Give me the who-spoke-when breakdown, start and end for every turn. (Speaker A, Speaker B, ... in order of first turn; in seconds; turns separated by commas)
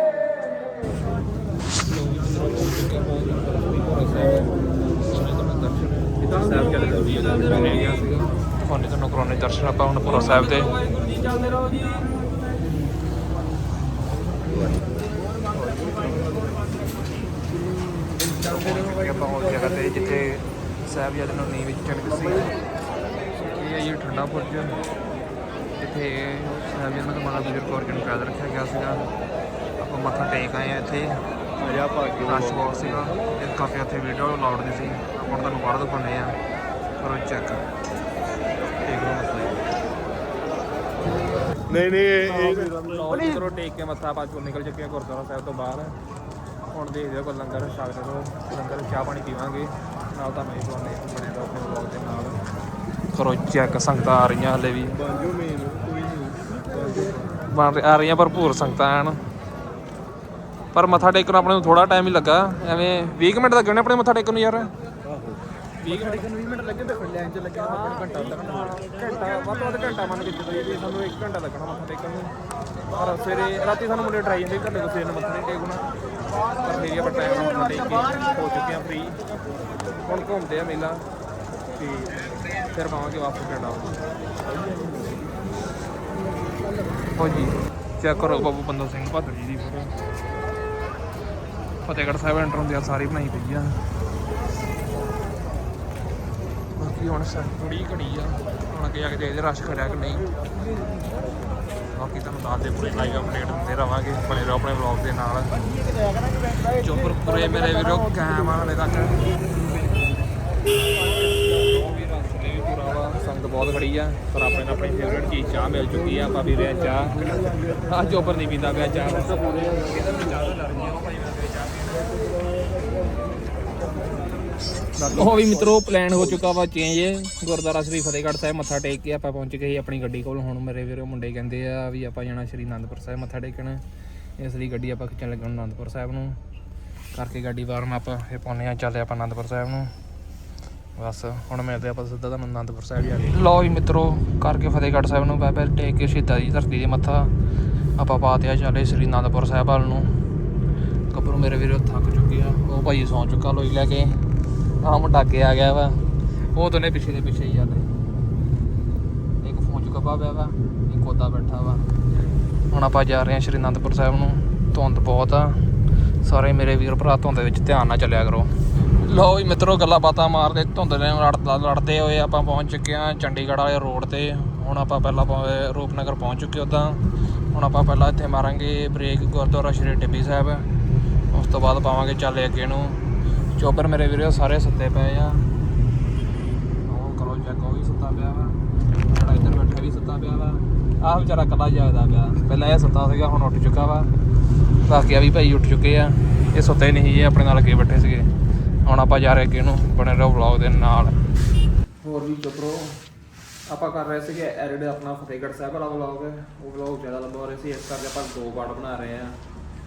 Speaker A: 1.8-10.8, Speaker A: 18.4-22.6, Speaker A: 23.4-24.8, Speaker A: 25.8-29.1, Speaker A: 29.8-31.3, Speaker B: 31.6-32.2, Speaker A: 32.2-36.4, Speaker A: 37.0-37.7, Speaker A: 38.9-39.6, Speaker B: 41.7-42.3, Speaker A: 42.2-46.0, Speaker A: 46.7-52.4, Speaker A: 53.1-55.0, Speaker B: 55.3-56.2, Speaker B: 56.8-57.1, Speaker A: 57.4-59.2, Speaker A: 60.7-64.7, Speaker A: 65.8-66.4, Speaker B: 66.3-67.9, Speaker A: 67.5-72.3, Speaker A: 72.9-75.9, Speaker A: 76.6-79.2, Speaker A: 80.0-81.1, Speaker A: 81.8-84.0, Speaker A: 87.2-89.9, Speaker A: 91.8-93.8, Speaker A: 96.8-100.3, Speaker A: 101.9-105.5, Speaker A: 106.7-109.3, Speaker A: 111.5-122.0, Speaker A: 125.0-133.8, Speaker A: 134.4-136.4, Speaker A: 137.1-139.9, Speaker A: 141.0-147.3, Speaker A: 148.0-150.1, Speaker A: 151.1-154.2, Speaker A: 154.8-157.9, Speaker A: 159.4-161.9, Speaker A: 162.7-165.6, Speaker A: 166.2-180.7, Speaker A: 181.3-183.0, Speaker A: 183.6-185.5, Speaker A: 186.8-194.1, Speaker A: 194.8-198.3, Speaker A: 198.8-201.2, Speaker A: 202.0-203.0, Speaker A: 203.7-209.4